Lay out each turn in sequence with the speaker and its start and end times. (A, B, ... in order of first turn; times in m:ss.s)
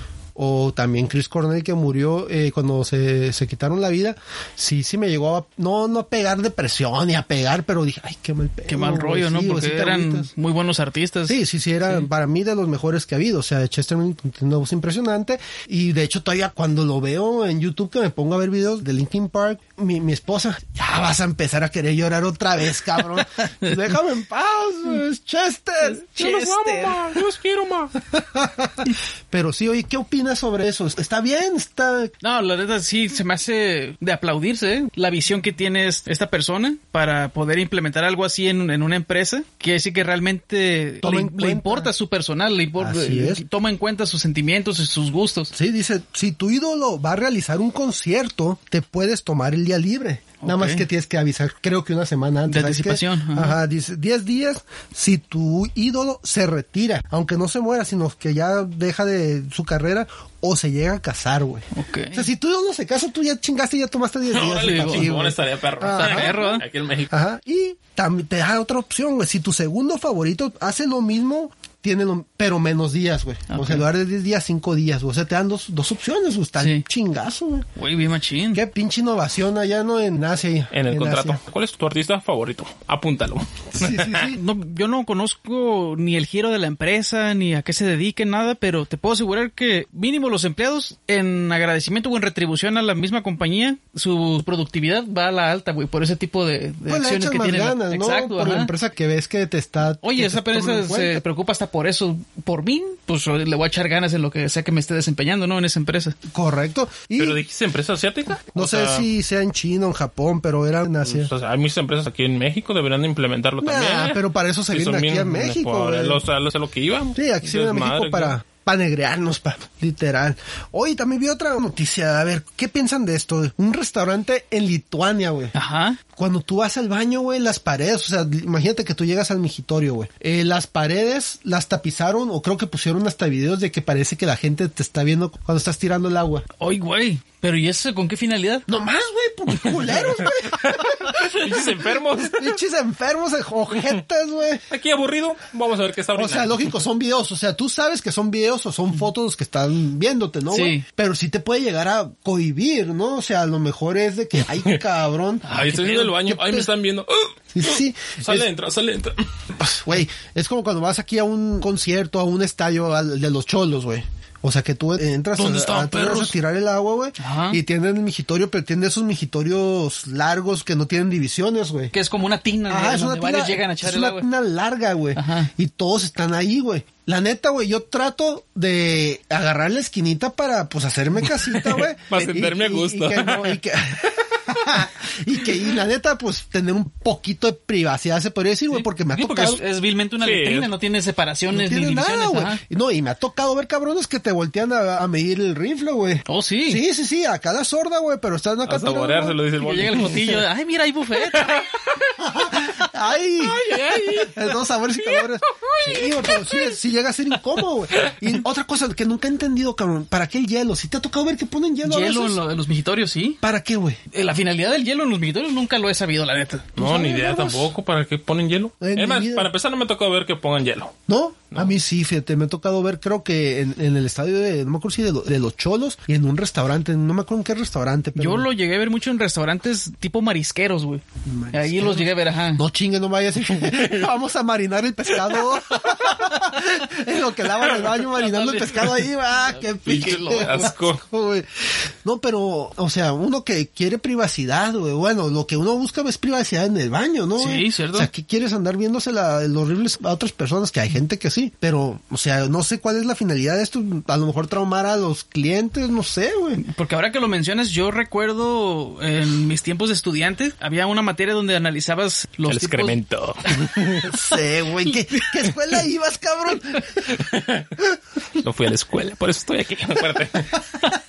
0:00.4-0:10.3 A
0:08.7-0:11.4 B
0:11.3-0:26.3 A
0:26.1-0:27.0 B
0:26.1-0:27.9 C
0:28.1-0:32.1 A
0:32.2-0:45.5 B
0:41.0-0:41.9 A
0:42.8-0:43.4 A
0:45.5-1:06.6 A
0:50.4-0:50.8 B
0:52.5-0:53.6 B
1:01.7-1:02.2 B
1:04.3-1:07.1 C
1:04.6-1:05.1 B
1:05.9-1:06.6 B
1:07.1-1:17.7 A
1:13.5-1:13.8 B
1:16.6-1:16.8 B
1:17.8-1:18.6 B
1:18.5-1:21.4 A
1:20.7-1:24.3 C
1:23.8-1:24.4 A
1:24.3-1:38.7 B
1:36.8-1:41.2 A
1:40.0-1:46.2 B
1:46.3-1:47.4 A
1:47.2-1:49.0 C
1:48.5-1:51.3 A
1:51.1-1:58.4 C
1:53.6-1:56.2 A
1:57.1-2:05.5 A
2:05.5-2:06.0 B
2:06.2-2:16.4 A
2:16.6-2:18.6 B
2:18.7-2:24.6 A
2:20.6-2:22.6 C
2:24.7-2:26.7 C
2:26.1-2:36.7 A
2:30.5-2:30.8 B
2:35.4-2:36.2 B
2:35.5-2:39.2 C
2:37.5-2:38.5 A
2:39.6-2:51.9 A
2:45.4-2:46.3 B
2:47.2-2:47.6 B
2:51.9-2:54.3 B
2:52.7-3:09.6 A
2:55.1-2:55.5 B
3:01.6-3:03.6 C
3:08.7-3:12.6 B
3:10.2-3:10.7 C
3:11.5-3:19.4 A
3:16.3-3:16.8 B
3:18.6-3:20.4 C
3:19.6-3:21.7 B
3:21.3-3:21.6 C
3:22.2-3:32.4 A
3:23.4-3:26.4 C
3:31.8-3:33.4 B
3:33.4-3:34.0 A
3:34.1-3:36.7 B
3:36.8-3:37.7 A
3:36.8-3:41.0 C
3:38.8-3:39.5 A
3:41.1-3:48.5 A
3:48.2-3:52.6 B
3:51.3-4:16.6 A
3:58.4-3:58.8 B
3:59.8-4:01.0 C
3:59.9-4:00.7 B
4:07.4-4:08.1 B
4:16.6-4:23.0 B
4:22.5-4:24.1 C
4:24.0-4:27.2 A
4:24.9-4:25.4 B
4:27.1-4:27.7 C
4:28.4-4:30.7 C